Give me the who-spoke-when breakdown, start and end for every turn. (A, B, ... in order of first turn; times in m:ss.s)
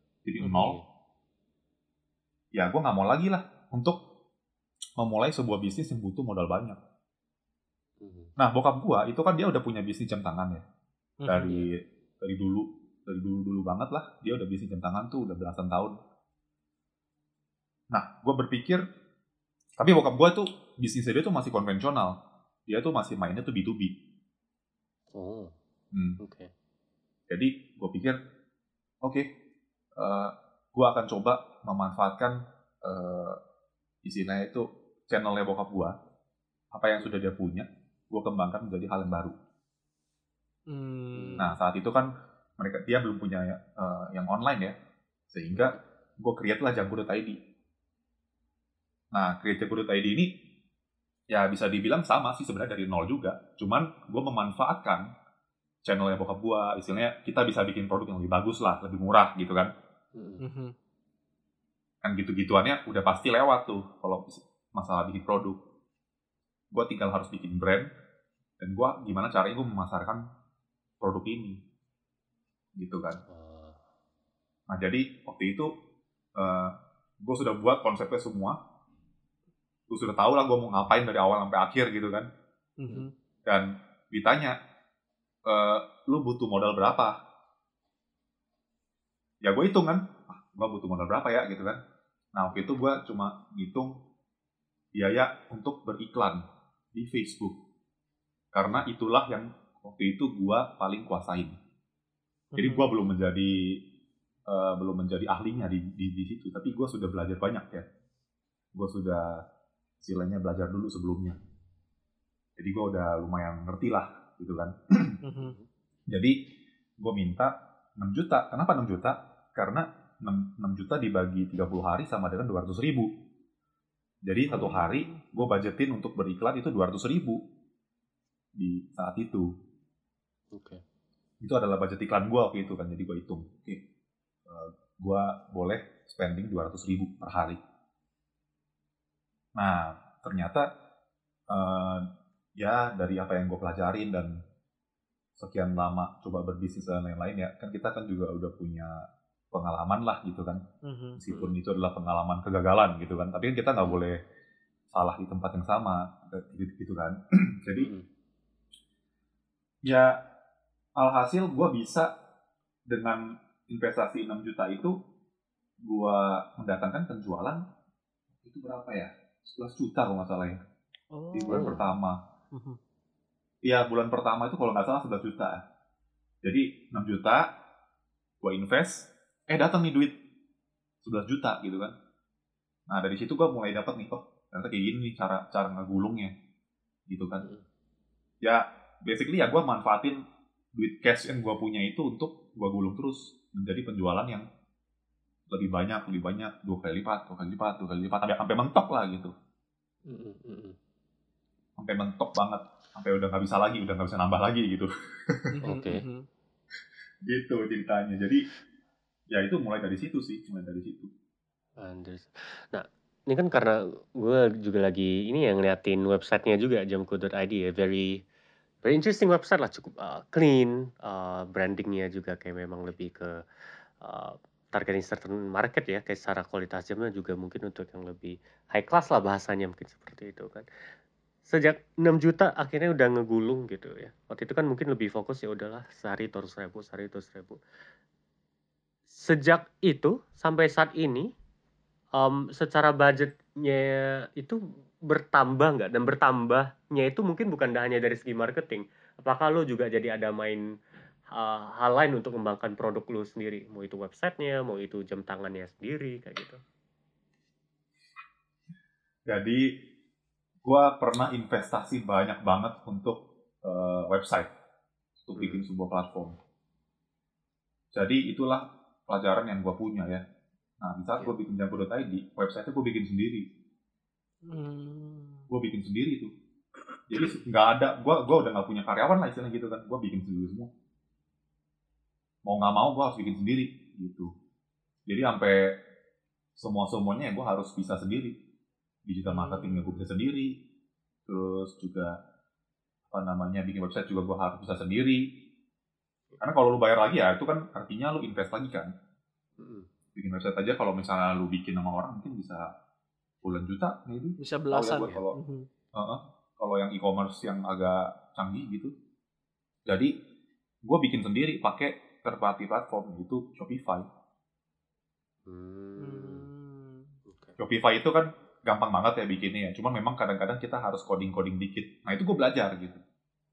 0:00.2-0:00.8 A
0:00.4-0:00.7 B
0:00.5-0:00.8 C
0:02.5-0:04.0 A
0:05.0-0:06.8 A
0:08.0-0:08.3 C
0:08.4-0:10.6 A
0:11.2-0:11.5 B
0:11.3-0:16.0 A
0:17.9-0:18.8 A
0:19.8-0:23.9 A
0:25.1-0:25.5 C
0:25.9-0:26.2 A
0:26.2-0:26.5 C
0:27.3-0:28.2 A
0:30.0-0:33.4 A
0:34.0-0:35.9 A
0:36.7-0:39.3 A
0:40.7-0:41.5 B
0:41.1-0:41.6 C
0:41.4-0:44.7 A
0:45.3-0:47.4 A
0:45.5-0:45.8 C
0:49.1-0:50.3 A
0:51.3-0:55.1 A
0:55.8-0:59.7 A
1:00.1-1:00.4 C
1:00.4-1:00.7 B
1:02.0-1:05.6 A
1:06.7-1:07.9 A
1:08.6-1:10.2 A
1:11.0-1:11.6 A
1:12.8-1:13.2 A
1:13.3-1:13.8 C
1:14.7-1:15.7 A
1:16.4-1:18.6 A
1:19.9-1:22.3 A
1:22.8-1:23.1 B
1:23.5-1:24.5 A
1:25.5-1:27.1 A
1:29.4-1:31.8 A
1:32.3-1:33.9 A
1:34.9-1:36.4 A
1:36.9-1:37.5 A
1:38.5-1:41.6 A
1:42.5-1:42.9 B
1:42.6-1:43.8 A
1:44.5-1:47.8 A
1:48.7-1:49.4 A
1:50.0-1:51.4 A
1:52.6-1:55.2 A
1:55.2-1:55.6 B
1:55.4-1:55.6 C
1:56.1-1:56.4 A
1:57.0-2:03.1 A
2:04.2-2:07.4 A
2:04.5-2:05.4 B
2:08.6-2:09.5 A
2:10.5-2:10.8 C
2:11.4-2:13.8 A
2:14.4-2:17.6 A
2:19.6-2:20.6 A
2:21.5-2:22.0 A
2:22.6-2:24.4 A
2:25.4-2:28.9 A
2:29.5-2:30.6 A
2:30.8-2:31.2 B
2:31.2-2:34.2 A
2:34.9-2:37.9 A
2:37.8-2:38.0 C
2:39.8-2:40.2 A
2:41.0-2:42.1 A
2:42.9-2:44.9 A
2:45.8-2:47.6 A
2:48.4-2:50.6 A
2:51.1-2:51.7 B
2:51.3-2:52.2 A
2:51.5-2:51.8 C
2:52.5-2:52.8 B
2:53.6-2:55.6 A
2:56.4-2:57.5 A
2:58.4-3:00.2 A
3:01.0-3:01.9 A
3:02.9-3:06.3 A
3:07.1-3:07.5 A
3:08.4-3:10.2 A
3:10.7-3:14.4 A
3:15.5-3:19.3 A
3:20.1-3:20.8 C
3:21.8-3:25.6 A
3:25.5-3:26.2 B
3:25.6-3:26.0 C
3:27.3-3:28.4 A
3:29.3-3:31.1 A
3:31.8-3:38.2 C
3:38.8-3:43.3 C
3:44.0-3:50.7 C
3:51.5-3:57.6 C
3:59.1-4:01.3 C
4:02.2-4:10.6 C
4:11.3-4:16.6 C
4:19.3-4:19.7 A
4:20.6-4:24.5 A
4:25.3-4:26.4 A
4:25.4-4:25.6 C
4:27.9-4:30.2 A
4:30.8-4:33.4 A
4:34.4-4:35.4 B
4:35.5-4:36.3 A
4:37.1-4:40.7 A
4:42.4-4:44.3 A
4:45.1-4:45.8 A
4:46.6-4:48.3 A
4:49.1-4:50.6 A
4:49.3-4:50.0 B
4:51.2-4:52.1 A
4:53.1-4:55.4 A
4:56.4-4:58.9 A
4:59.6-4:59.9 C
5:00.2-5:02.7 A
5:03.4-5:05.4 A
5:04.4-5:05.7 B
5:06.0-5:08.9 A
5:09.9-5:10.1 A
5:10.8-5:14.1 A
5:15.5-5:16.5 C
5:16.0-5:17.1 B
5:17.3-5:17.6 C
5:17.6-5:23.0 A